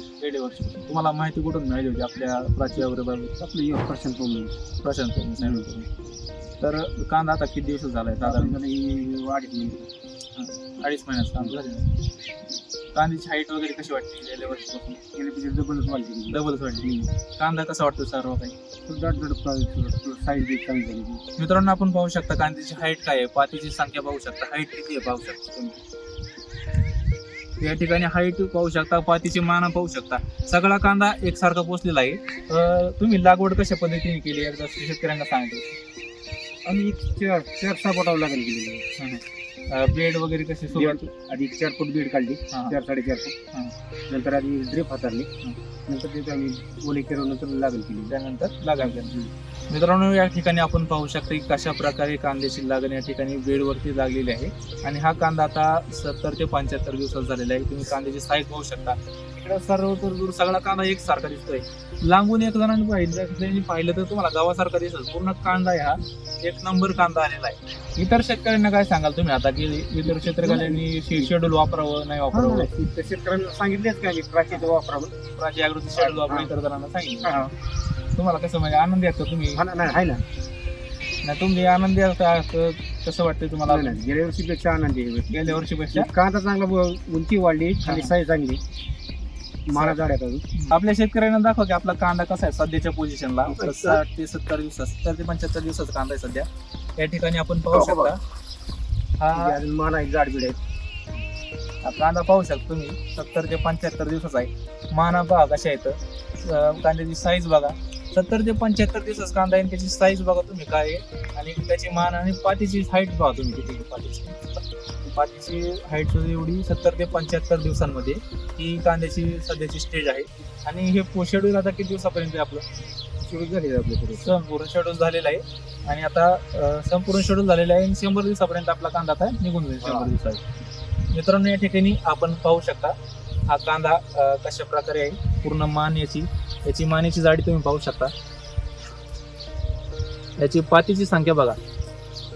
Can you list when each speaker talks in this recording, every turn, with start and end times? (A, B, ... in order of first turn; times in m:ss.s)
0:00.2-0:03.3 A
0:03.4-0:04.6 B
0:04.8-0:05.9 A
0:05.4-0:05.7 B
0:06.6-0:08.6 A
0:08.2-0:09.9 B
0:10.4-0:11.9 A
0:12.9-0:15.0 A
0:15.1-0:17.1 B
0:16.3-0:18.5 A
0:18.8-0:21.2 B
0:21.4-0:25.8 A
0:27.6-0:35.7 A
0:36.6-0:38.8 B
0:39.0-0:41.1 A
0:40.7-0:43.3 B
0:42.5-0:42.8 A
0:44.1-0:45.3 B
0:45.9-0:48.1 B
0:48.1-0:49.2 A
0:48.8-0:49.3 B
0:49.7-1:12.7 A
1:10.0-1:11.3 B
1:12.3-1:15.2 B
1:15.4-1:17.4 A
1:16.0-1:16.5 B
1:17.2-1:17.5 B
1:18.1-1:19.6 A
1:19.5-1:20.2 B
1:21.2-1:24.0 A
1:23.7-1:28.6 B
1:25.3-1:26.1 A
1:27.8-1:28.1 A
1:29.7-1:30.4 B
1:29.7-1:30.0 A
1:30.5-1:38.2 A
1:33.5-1:34.0 B
1:37.7-1:38.1 B
1:39.2-1:39.6 A
1:39.3-1:40.6 B
1:41.8-2:02.6 A
2:03.3-2:04.3 B
2:04.2-2:10.4 A
2:09.8-2:10.1 B
2:11.1-2:12.9 A
2:13.4-2:18.1 A
2:20.4-2:21.6 A